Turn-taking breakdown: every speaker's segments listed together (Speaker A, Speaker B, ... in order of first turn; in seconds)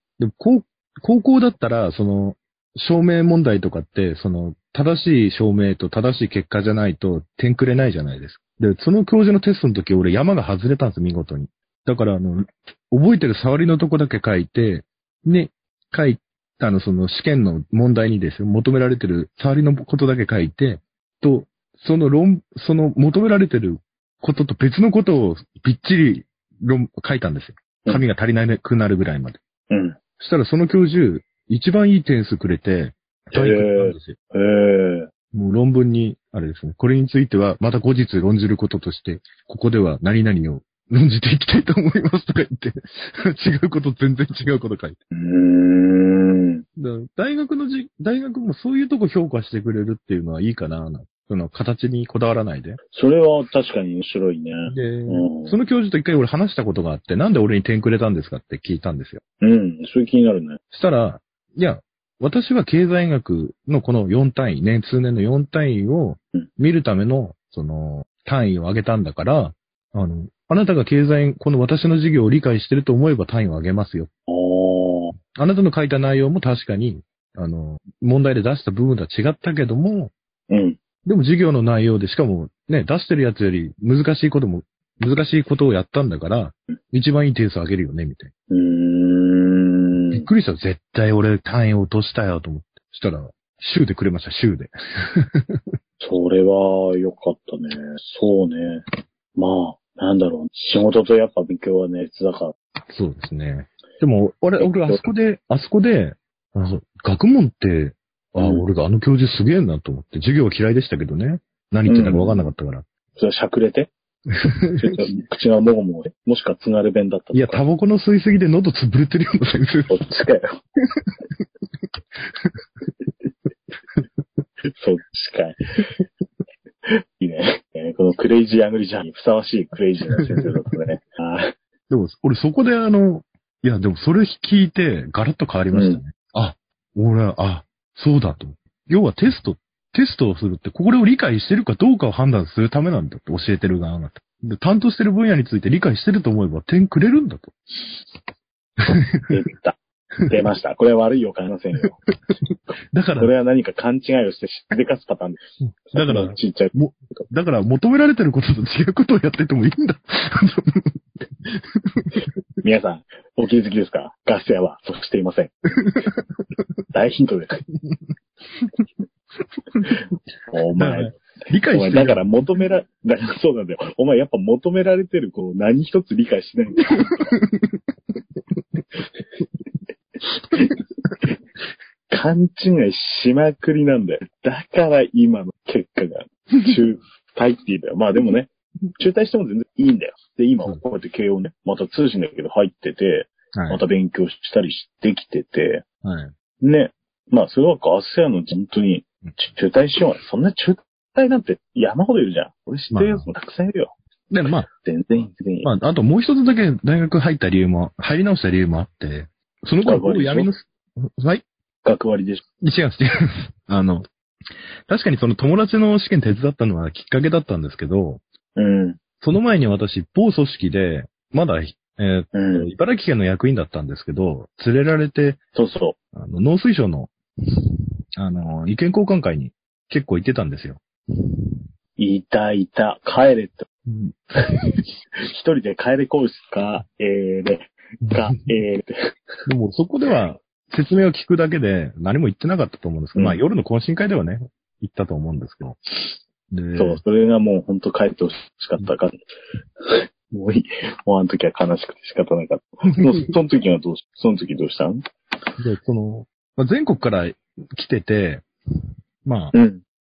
Speaker A: 0.2-29.4, 30.2-34.1, 35.3-45.0, 46.8-52.8, 54.7-59.2, 60.7-74.1, 75.3-80.1, 81.0-88.3, 90.1-95.6, 102.9-112.8, 114.6-115.0, 117.3-120.0, 122.3-122.5, 130.2-130.4, 131.9-147.6, 148.8-149.3, 152.9-153.3, 155.9-162.2, 165.8-166.2, 170.8-172.3, 177.4-177.8, 193.5-193.8, 196.0-196.3, 202.9-203.3, 204.3-204.7, 205.6-211.4, 212.6-214.1, 214.9-218.2, 219.2-225.4, 226.1-227.1, 228.2-230.8, 233.9-234.2, 239.5-245.8, 246.5-247.0, 255.6-258.4, 259.2-259.5
Speaker B: 29.7-30.0, 33.3-35.1, 45.1-46.6, 52.9-55.5, 59.4-60.6, 74.3-75.1, 80.5-80.8, 88.5-90.3, 96.0-98.8, 99.3-102.5, 104.6-105.0, 108.4-108.6, 111.9-112.5, 113.2-113.9, 114.8-117.6, 119.9-120.6, 124.8-125.6, 126.9-131.5, 135.7-136.0, 149.3-152.0, 153.2-156.7, 162.6-165.5, 166.9-167.6, 170.5-171.2, 171.7-177.3, 180.5-180.8, 182.1-195.8, 196.6-203.9, 204.7-205.7, 209.8-210.5, 211.8-212.4, 218.6-219.0, 222.3-222.7, 225.5-225.9, 232.0-233.7, 235.3-238.9, 246.7-249.1, 249.8-255.0, 259.5-259.8